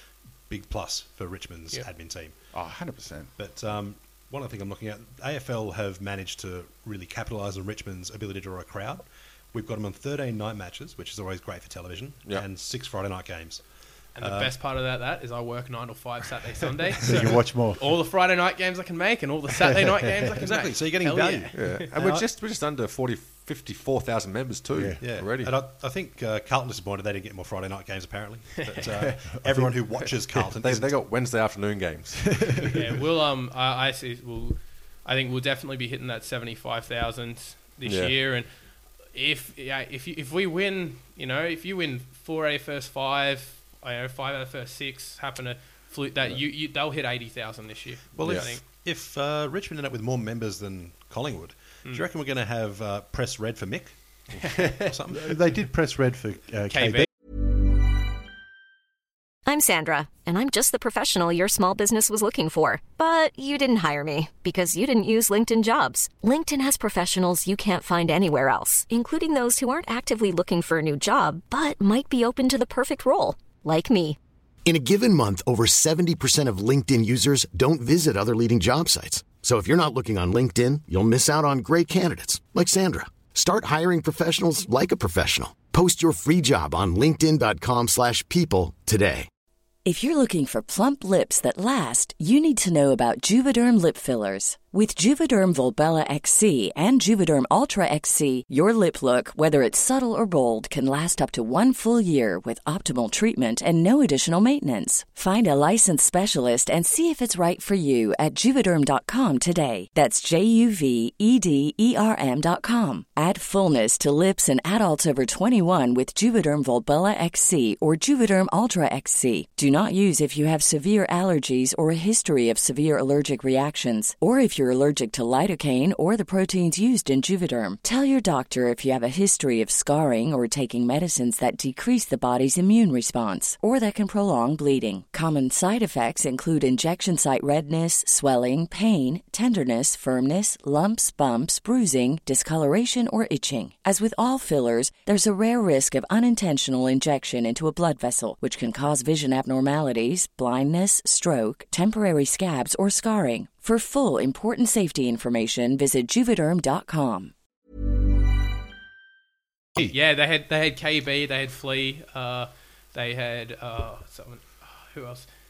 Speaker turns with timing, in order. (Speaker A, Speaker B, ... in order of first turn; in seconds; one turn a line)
Speaker A: 0.5-2.4
Speaker B: 2.5-3.3
Speaker A: 3.4-14.6
Speaker C: 14.2-21.9
Speaker B: 17.1-17.9
Speaker A: 20.4-22.2
Speaker D: 21.5-25.6
Speaker B: 24.7-25.0
Speaker A: 25.0-30.9
Speaker B: 29.4-29.7
Speaker D: 30.1-32.8
Speaker C: 32.7-38.5
Speaker D: 37.9-38.1
Speaker C: 39.1-48.6
Speaker A: 48.1-55.4
Speaker D: 48.2-48.5
Speaker B: 55.1-57.1
Speaker C: 56.7-57.1
Speaker E: 59.5-74.2
Speaker F: 74.7-89.3
Speaker G: 89.8-157.3
Speaker C: 159.8-165.3